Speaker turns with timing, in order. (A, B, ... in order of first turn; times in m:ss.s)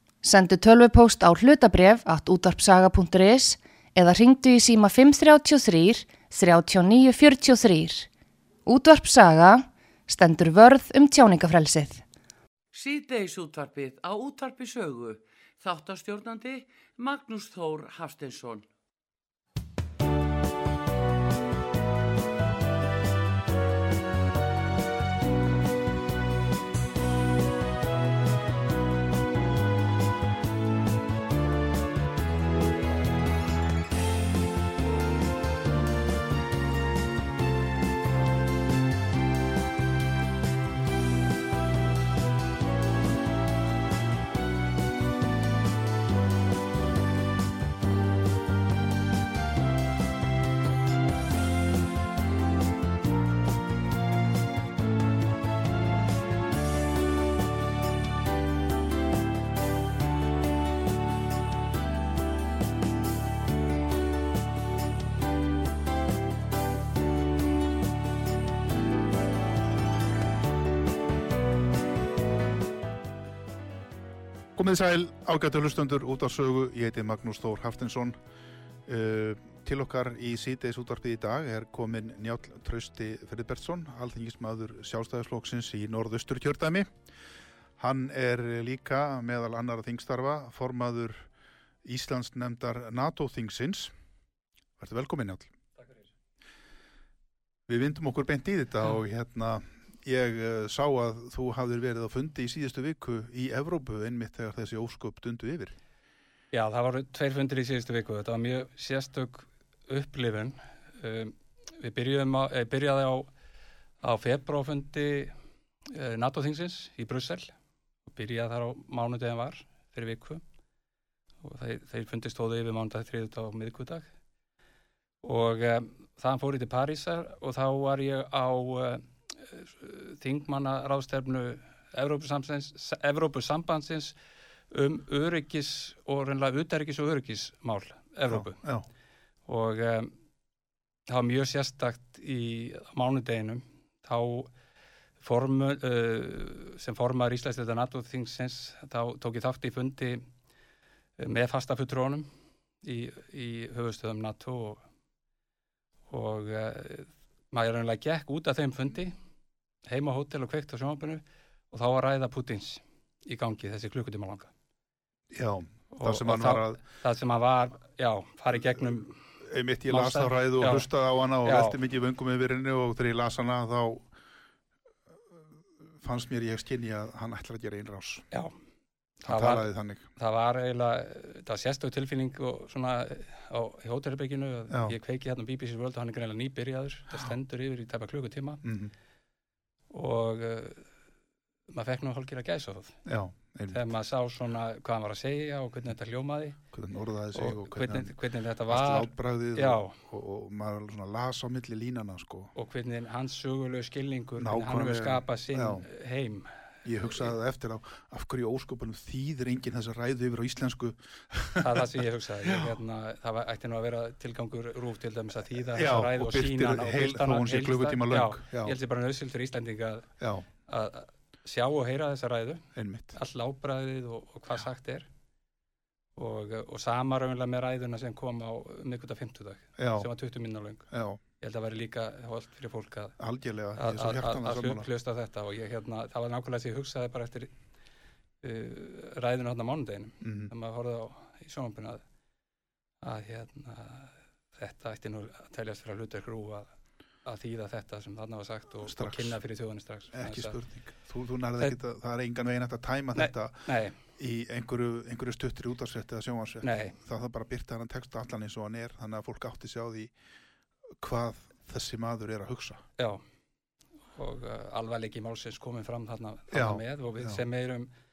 0:00.2-0:08.1 A
0:08.6-0:12.0 A
0:12.7-0:18.6 B
1:14.6-1:18.1 C
1:18.8-1:26.9 C
1:27.8-1:31.3 C
1:31.8-1:33.9 C
1:34.8-1:35.5 C
1:37.7-1:45.8 C
1:46.5-1:53.3 D
1:54.0-1:55.3 D
1:55.9-1:57.5 D
1:58.1-2:00.4 D
2:01.4-2:04.1 D
2:05.2-2:14.1 D
2:14.7-2:18.6 D
2:18.3-2:18.8 C
2:19.4-2:20.1 D
2:21.1-2:24.5 D
2:25.2-2:30.2 D
2:31.2-2:32.3 D
2:32.8-2:34.8 D
2:36.1-2:39.2 D
2:39.8-2:44.5 D
2:45.3-2:46.8 C
2:45.9-2:49.2 D
2:49.4-2:54.1 C
2:49.9-2:50.9 D
2:51.4-2:51.8 D
2:56.0-2:58.2 C
2:59.2-3:08.6 D
2:59.3-3:00.0 C
3:04.7-3:04.9 C
3:08.6-3:08.9 C
3:09.9-3:10.9 D
3:11.7-3:13.0 D
3:13.0-3:13.9 C
3:13.7-3:16.6 D
3:16.7-3:18.1 C
3:17.3-3:20.0 D
3:18.7-3:22.5 C
3:22.5-3:27.3 D
3:24.4-3:25.8 C
3:26.8-3:31.9 C
3:31.6-3:40.1 D
3:32.4-3:32.8 C
3:35.7-3:38.8 C
3:40.2-3:40.4 C
3:40.6-3:45.1 D
3:42.7-3:43.1 C
3:46.2-3:50.9 D
3:49.8-3:50.1 C
3:50.9-3:51.2 C
3:51.4-3:53.2 D
3:53.2-3:54.9 C
3:53.8-3:57.5 D
3:58.4-4:02.0 D
4:00.2-4:00.5 C
4:03.0-4:06.7 D
4:07.2-4:10.6 D
4:08.8-4:09.4 C
4:10.1-4:20.1 C
4:13.1-4:14.0 D
4:16.6-4:17.0 D
4:21.0-4:22.8 C
4:24.1-4:27.9 D
4:26.5-4:27.4 C